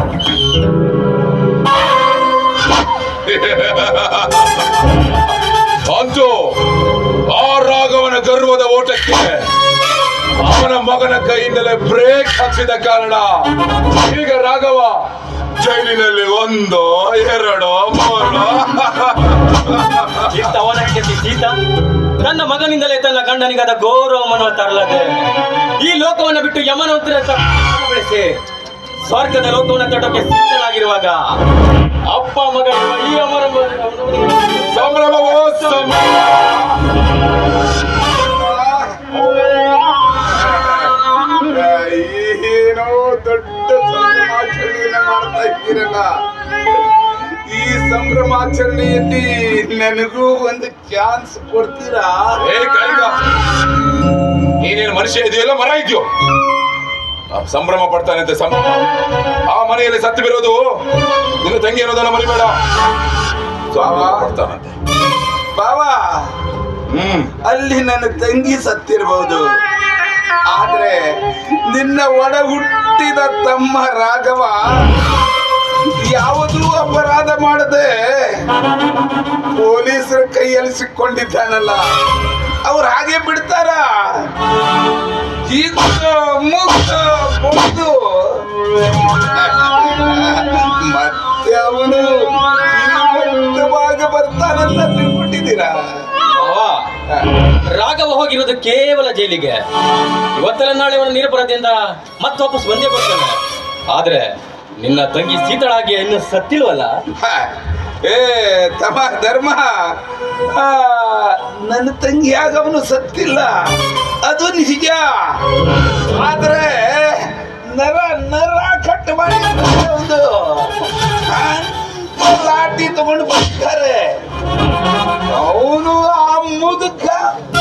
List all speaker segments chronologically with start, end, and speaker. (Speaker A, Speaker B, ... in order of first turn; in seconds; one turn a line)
Speaker A: 3.2-4.7
Speaker A: 5.8-6.6
Speaker A: 7.3-9.5
Speaker A: 10.4-15.0
Speaker A: 15.6-20.4
Speaker B: 20.3-21.6
Speaker B: 22.2-28.4
Speaker B: 29.0-31.4
Speaker B: 32.1-36.0
Speaker A: 34.7-36.5
Speaker C: 38.1-39.2
Speaker C: 40.3-46.1
Speaker C: 47.5-52.4
Speaker A: 52.4-53.2
Speaker A: 54.6-56.0
Speaker A: 57.3-58.9
Speaker A: 59.5-60.6
Speaker A: 61.4-62.6
Speaker A: 63.7-64.7
Speaker C: 63.8-64.3
Speaker C: 65.5-66.0
Speaker A: 66.9-67.4
Speaker C: 67.4-69.4
Speaker C: 70.5-71.0
Speaker C: 71.7-74.8
Speaker C: 76.0-78.4
Speaker C: 79.5-81.8
Speaker C: 82.6-84.2
Speaker C: 85.5-88.4
Speaker C: 89.2-96.1
Speaker B: 96.3-96.9
Speaker B: 97.5-99.6
Speaker B: 100.3-103.4
Speaker B: 103.9-107.0
Speaker C: 107.2-107.5
Speaker C: 108.0-115.4
Speaker C: 116.0-124.2
Speaker C: 125.3-127.2